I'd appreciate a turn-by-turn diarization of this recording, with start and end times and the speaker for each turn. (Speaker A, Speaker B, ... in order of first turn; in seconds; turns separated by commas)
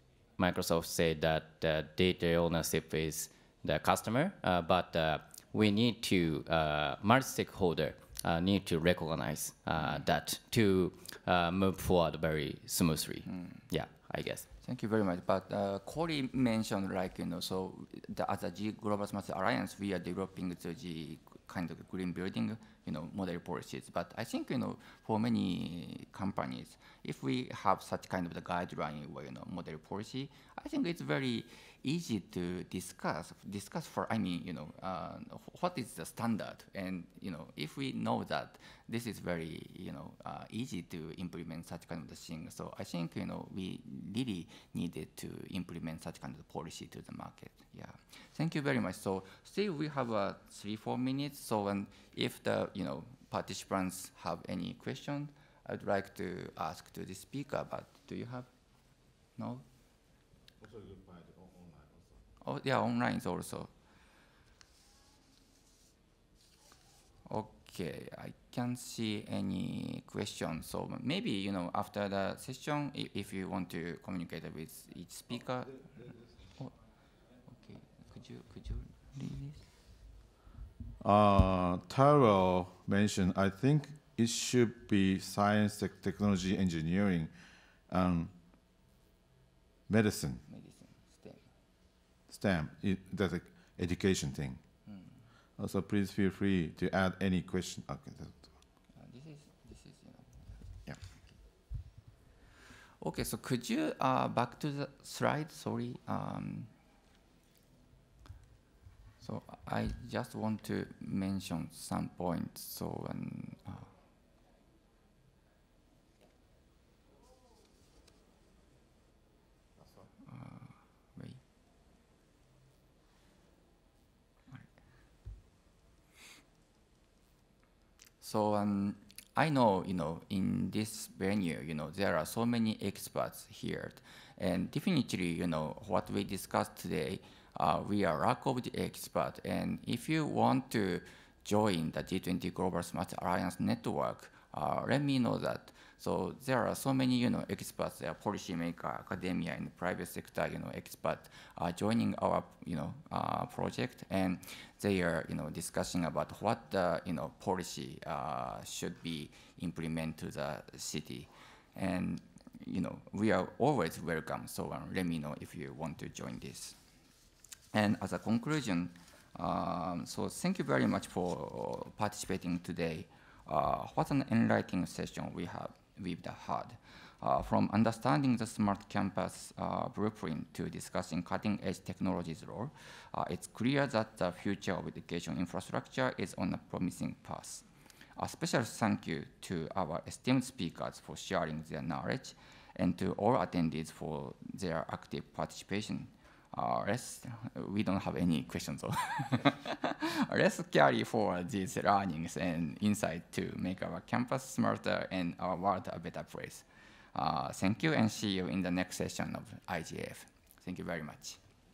Speaker A: 0.4-14.4, Speaker B: 9.8-10.0, Speaker B: 13.2-13.6, Speaker B: 14.6-58.5, Speaker B: 59.4-59.6, Speaker C: 60.6-62.0, Speaker B: 62.4-63.7, Speaker B: 67.3-76.7, Speaker B: 77.5-79.7, Speaker C: 81.0-87.3, Speaker C: 87.9-88.3, Speaker C: 89.9-90.4, Speaker B: 90.5-91.5, Speaker C: 92.3-94.6, Speaker B: 94.9-95.2, Speaker C: 95.6-98.4, Speaker B: 98.9-101.0, Speaker B: 103.0-106.7, Speaker B: 109.2-113.9, Speaker B: 120.2-121.4, Speaker B: 128.2-166.8, Speaker B: 167.7-187.7, Speaker B: 188.2-211.4